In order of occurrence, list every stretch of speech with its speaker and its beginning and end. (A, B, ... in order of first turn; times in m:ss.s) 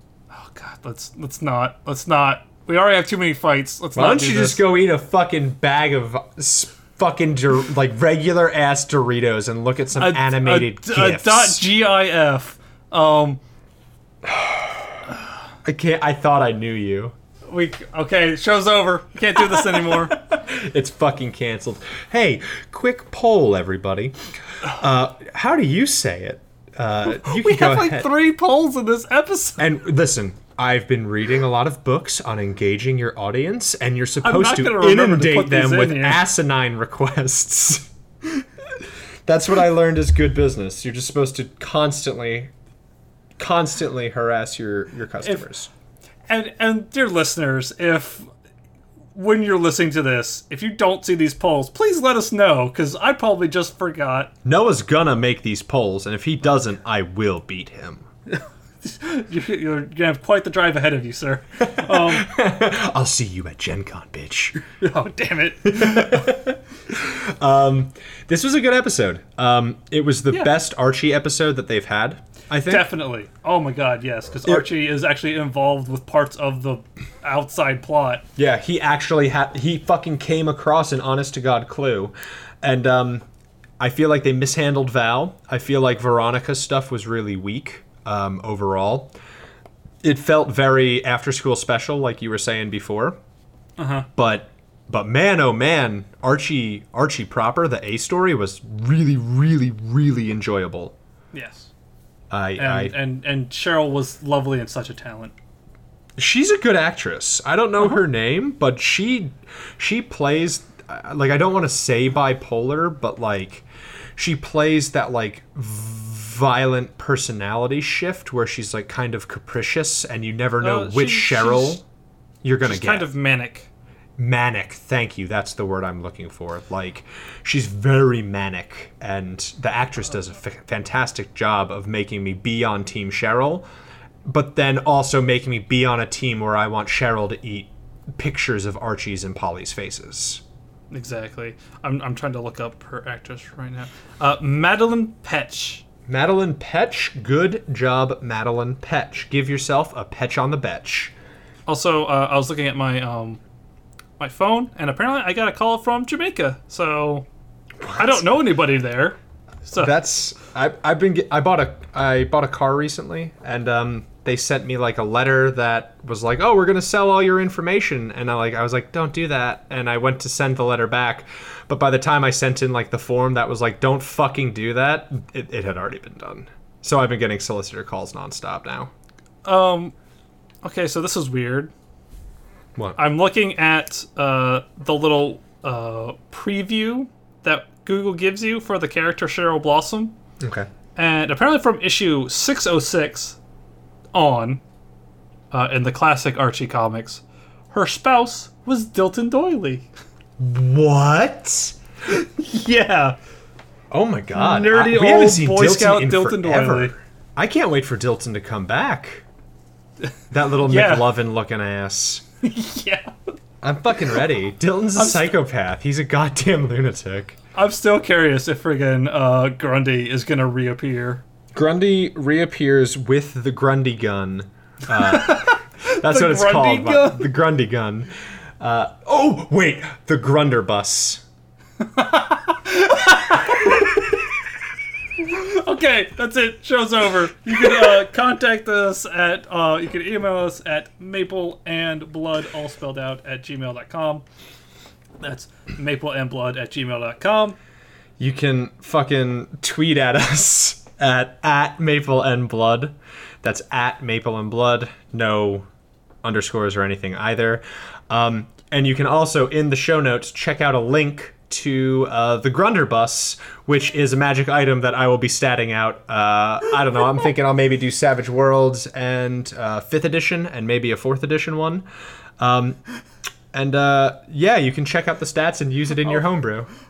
0:00.3-0:04.6 A
0:03.9-0:11.6 B
0:10.0-0:13.4 A
0:14.2-0:15.0 B
0:15.6-0:17.2 B
0:17.5-0:20.1 A
0:19.4-0:28.1 B
0:27.1-0:29.6 A
0:29.6-0:37.9 B
0:34.2-0:36.2 A
0:38.8-0:42.5 B
0:43.4-0:45.7 B
0:45.2-0:45.5 A
0:46.3-0:48.3 A
0:49.1-0:54.3 A
0:54.4-0:58.0 B
0:58.3-1:02.3 A
1:01.6-1:04.6 B
1:04.8-1:06.3 A
1:05.6-1:12.9 B
1:12.6-1:18.2 A
1:18.4-1:23.2 B
1:23.8-1:29.1 B
1:30.0-1:33.2 B
1:33.8-1:34.1 A
1:34.2-1:40.9 B
1:41.3-1:41.7 A
1:42.3-1:42.9 B
1:42.6-1:45.3 A
1:46.2-2:01.8 B
2:00.6-2:01.8 A
2:02.4-2:03.1 B
2:02.6-2:03.7 A
2:04.2-2:13.6 B
2:14.2-2:20.4 B
2:20.9-2:25.8 A
2:26.1-2:31.1 B
2:31.7-2:33.4 A
2:34.2-2:37.3 A
2:37.8-2:38.2 B
2:38.0-2:39.9 A
2:39.8-2:58.9 B
2:59.4-2:59.9 A
3:00.6-3:01.7 A
3:03.0-3:10.2 A
3:10.4-3:10.7 B
3:11.0-3:13.4 A
3:14.1-3:14.6 A
3:15.5-3:19.9 A
3:20.4-3:21.8 B
3:22.1-3:23.2 A
3:23.9-3:29.2 B
3:24.3-3:26.9 A
3:30.3-3:32.2 B
3:30.6-3:31.1 A
3:32.4-3:33.1 A
3:33.6-3:37.4 B
3:35.0-3:35.3 A
3:37.5-3:41.2 A
3:41.5-3:51.2 B
3:45.0-3:47.3 A
3:51.8-3:54.0 A
3:53.6-3:53.8 B
3:55.2-4:04.2 A
4:05.2-4:07.6 A
4:08.2-4:15.7 B
4:16.2-4:31.9 B
4:32.4-4:32.8 B
4:33.5-4:36.7 B